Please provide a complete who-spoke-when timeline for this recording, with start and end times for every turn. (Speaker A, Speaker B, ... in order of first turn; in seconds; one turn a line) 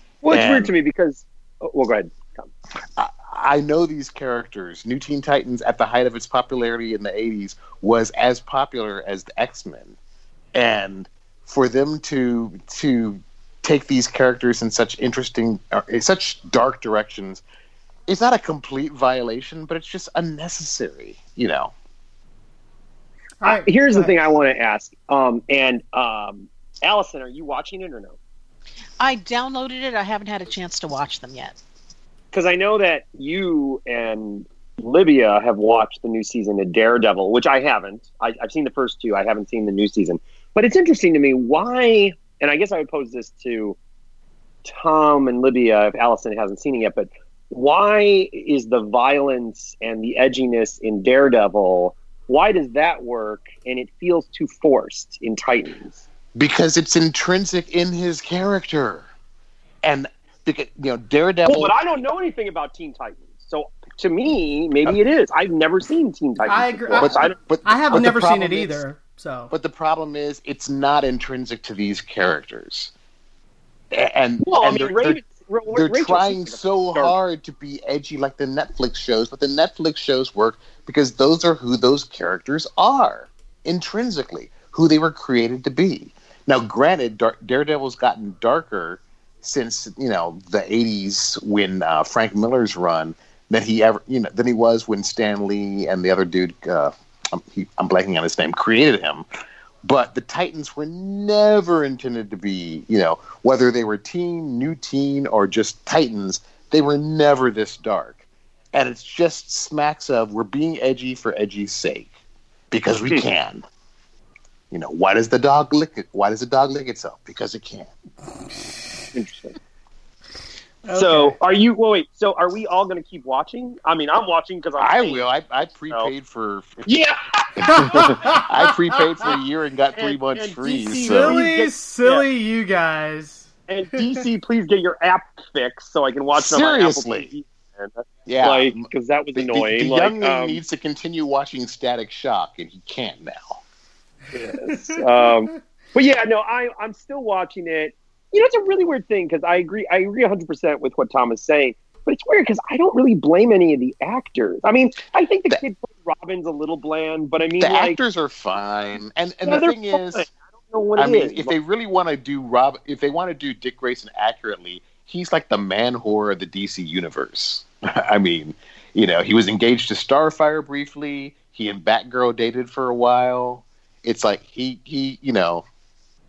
Speaker A: 0.2-2.5
Speaker B: 0.3-0.7
Speaker B: 3.0-9.9
Speaker B: 10.5-17.4
Speaker B: 18.1-21.7
Speaker C: 23.4-24.1
Speaker A: 23.4-28.1
Speaker D: 29.0-31.6
Speaker A: 32.3-43.8
Speaker A: 44.6-56.0
Speaker B: 56.3-59.1
Speaker B: 59.8-61.7
Speaker A: 61.5-67.3
Speaker C: 66.4-69.5
Speaker B: 67.0-68.8
Speaker B: 69.5-72.9
Speaker B: 73.9-75.2
Speaker A: 74.4-77.2
Speaker B: 75.7-99.2
Speaker B: 99.8-108.2
Speaker B: 108.7-112.1
Speaker B: 112.7-113.6
Speaker B: 114.7-117.9
Speaker C: 118.5-119.1
Speaker A: 119.1-119.5
Speaker C: 120.8-121.4
Speaker A: 120.9-125.2
Speaker B: 124.8-126.9
Speaker A: 126.8-128.2
Speaker C: 127.6-129.0
Speaker B: 127.6-131.4
Speaker A: 129.9-132.2
Speaker C: 130.9-133.5
Speaker A: 133.7-140.6
Speaker B: 136.3-137.3
Speaker B: 138.3-143.6
Speaker A: 144.3-158.0
Speaker C: 144.6-145.3
Speaker B: 157.6-160.3
Speaker A: 159.4-161.5
Speaker B: 161.0-175.6